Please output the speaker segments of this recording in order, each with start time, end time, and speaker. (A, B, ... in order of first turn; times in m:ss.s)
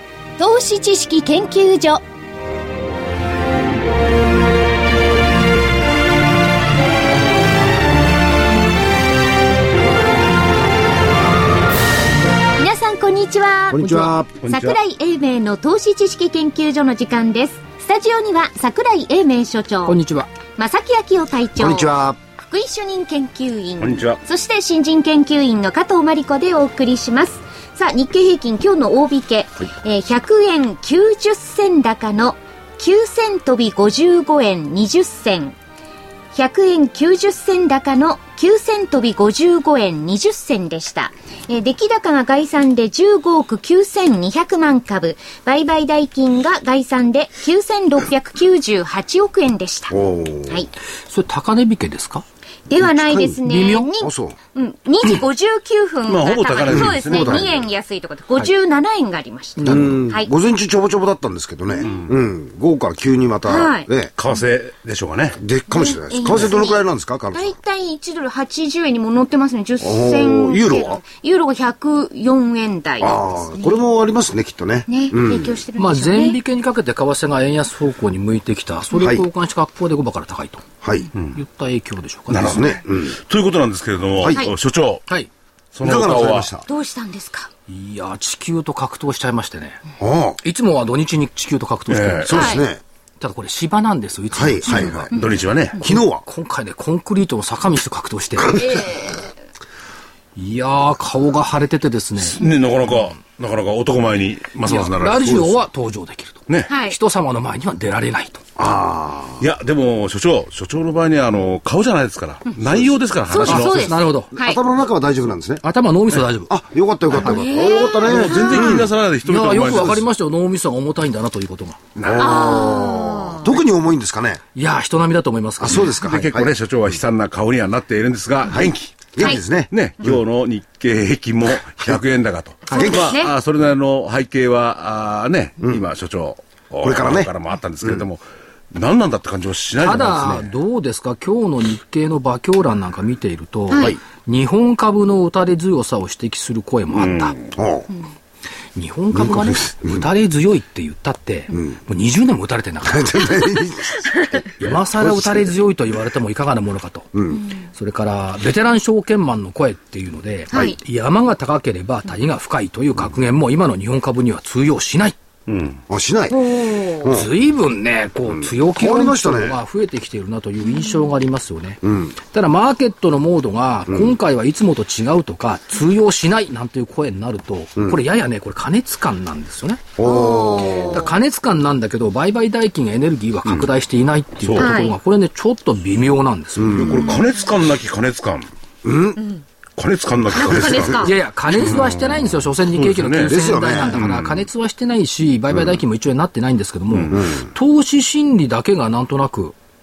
0:00.4-0:02.0 A
0:12.6-0:20.0 A
0:13.7-0:14.8 B
0:13.8-0:14.1 C
0:19.8-0:20.3 C
0:20.6-0:35.6 A
0:21.6-0:22.2 B
0:23.8-0:24.2 D
0:36.3-0:50.0 A
0:49.9-0:50.7 B
0:51.1-0:52.2 C
0:52.7-1:00.3 A
0:52.8-0:53.4 B
0:53.4-0:53.9 C
0:54.0-0:54.4 B
0:56.1-0:57.6 D
0:56.7-0:57.6 B
0:59.6-1:00.0 C
0:59.6-1:04.1 B
1:01.8-1:02.1 D
1:03.5-1:03.9 A
1:04.2-1:05.4 D
1:05.4-1:07.6 B
1:05.7-1:06.8 A
1:07.3-1:13.8 A
1:09.8-1:11.0 B
1:13.0-1:15.6 B
1:14.9-1:16.4 A
1:15.8-1:20.6 C
1:19.0-1:19.3 B
1:20.8-1:21.1 B
1:21.4-1:22.8 C
1:22.3-1:25.0 D
1:22.4-1:23.2 B
1:24.2-1:24.5 B
1:25.7-1:26.5 D
1:25.8-1:26.7 B
1:26.7-1:27.5 A
1:27.7-1:29.8 C
1:30.0-1:30.4 B
1:30.4-1:32.6 C
1:31.9-1:32.4 D
1:32.3-1:32.8 B
1:32.3-1:32.6 A
1:33.2-1:35.1 C
1:34.3-1:35.1 B
1:34.7-1:35.2 A
1:35.1-1:35.8 D
1:35.8-1:36.2 B
1:35.8-1:38.9 C
1:38.6-1:39.2 A
1:40.4-1:42.4 C
1:42.2-1:45.6 D
1:44.6-1:48.4 C
1:46.7-1:47.0 A
1:48.6-1:49.4 B
1:49.4-1:54.0 D
1:53.3-1:54.6 A
1:53.4-1:54.3 C
1:54.3-1:55.6 B
1:55.6-1:56.5 C
1:56.5-1:58.9 B
1:57.2-1:58.8 A
1:58.0-2:00.0 D
1:58.2-1:58.6 C
1:59.2-2:01.8 C
2:02.0-2:02.3 D
2:02.0-2:04.4 B
2:02.1-2:03.5 A
2:04.6-2:06.1 C
2:05.6-2:06.5 B
2:05.7-2:09.1 D
2:08.5-2:10.2 B
2:09.7-2:20.5 D
2:12.7-2:13.2 B
2:12.7-2:13.3 A
2:16.8-2:17.3 B
2:19.8-2:27.4 C
2:23.7-2:24.0 A
2:26.9-2:27.5 D
2:27.6-2:27.9 B
2:28.8-2:33.6 C
2:29.1-2:30.0 B
2:31.5-2:31.8 B
2:32.8-2:35.5 B
2:34.6-2:37.1 C
2:37.1-2:37.5 B
2:37.7-2:45.2 C
2:40.5-2:40.8 A
2:45.5-2:45.8 D
2:45.9-2:47.3 B
2:46.3-2:47.2 A
2:47.1-2:59.8 C
2:48.3-2:49.6 B
2:51.8-2:52.2 B
2:53.9-2:54.2 B
3:00.0-3:01.1 B
3:00.0-3:01.1 A
3:00.9-3:06.9 C
3:04.4-3:04.7 D
3:04.6-3:05.0 A
3:06.6-3:07.2 B
3:06.7-3:08.5 D
3:06.9-3:07.3 A
3:08.8-3:09.2 B
3:09.2-3:09.4 A
3:09.8-3:14.4 D
3:10.3-3:11.1 A
3:10.5-3:10.9 B
3:11.0-3:19.6 C
3:13.2-3:14.1 B
3:17.1-3:17.5 B